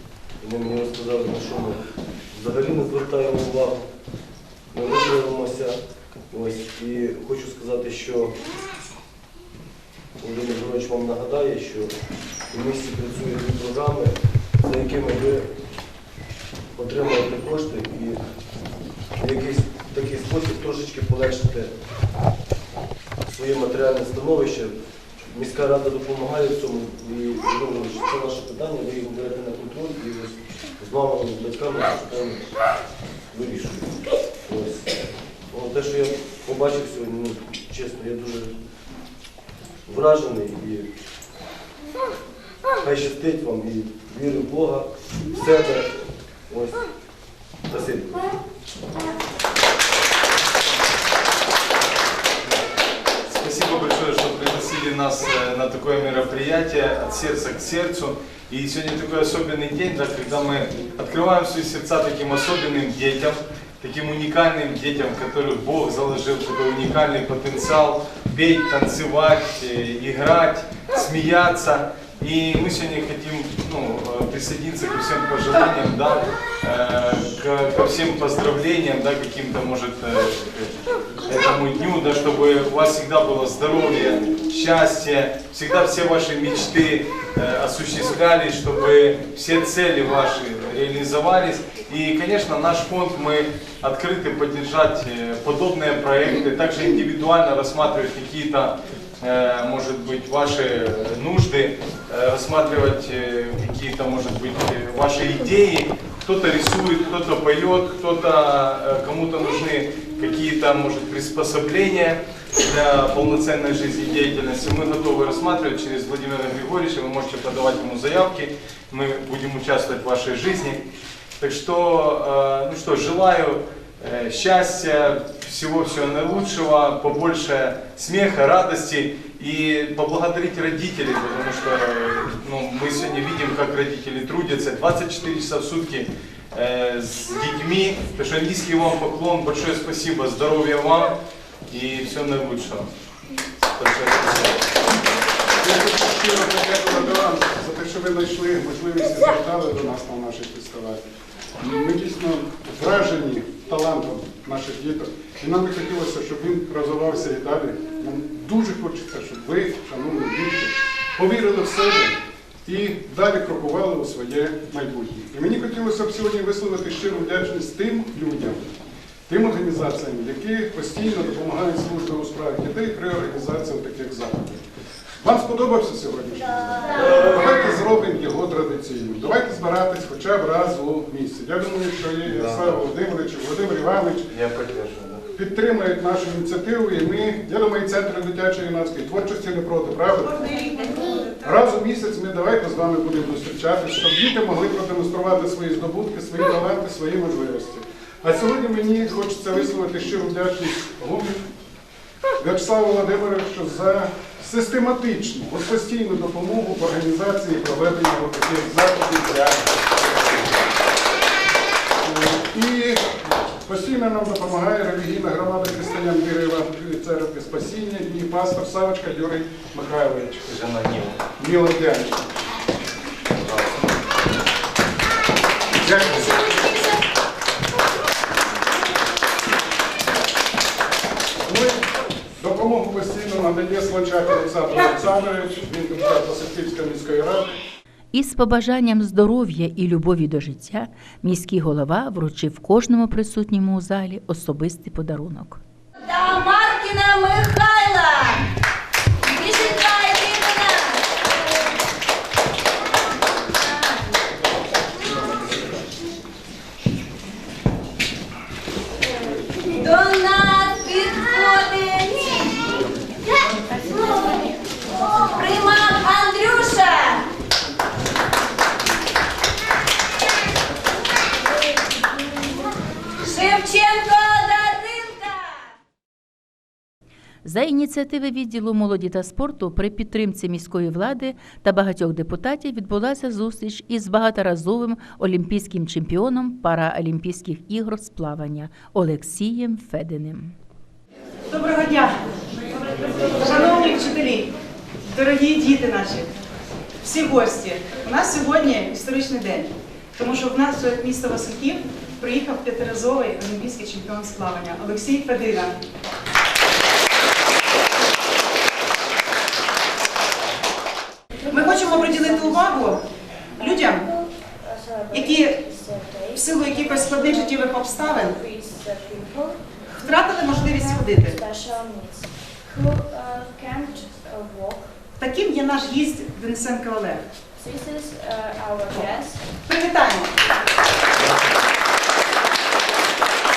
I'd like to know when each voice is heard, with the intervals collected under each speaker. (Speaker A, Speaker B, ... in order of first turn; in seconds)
Speaker A: 0.4-3.9, 4.7-5.8, 6.3-8.4, 10.2-11.9, 12.5-15.5, 16.8-18.2, 19.2-21.7, 23.3-24.8, 25.3-32.5, 33.3-38.6, 39.9-40.9, 42.8-45.9, 46.5-46.9, 47.7-48.3
Speaker B: 53.3-120.8, 121.4-141.2, 141.7-142.9, 143.8-144.6, 176.8-177.6, 182.3-182.8, 184.3-185.2, 220.5-221.2
Speaker C: 145.6-151.0, 151.6-168.7, 169.3-174.6, 175.2-184.3, 185.3-190.4, 191.4-201.4, 202.4-210.6, 212.0-213.0, 213.7-220.5, 221.4-222.2, 225.8-226.4, 231.5-231.8, 232.4-237.6
Speaker D: 190.5-191.5, 291.5-294.5, 295.1-296.3, 297.0-305.8, 311.5-313.0, 313.6-314.1, 315.1-315.6, 316.4-318.4, 319.9-321.4, 325.2-327.3, 329.7-330.3
Speaker E: 226.1-227.0, 246.0-248.4, 249.3-251.0, 259.7-262.5, 263.9-264.4, 265.2-267.2, 273.2-275.6
Speaker F: 238.1-245.6, 277.4-290.6
Speaker G: 315.6-317.4, 317.9-319.5, 320.5-324.8, 327.6-329.4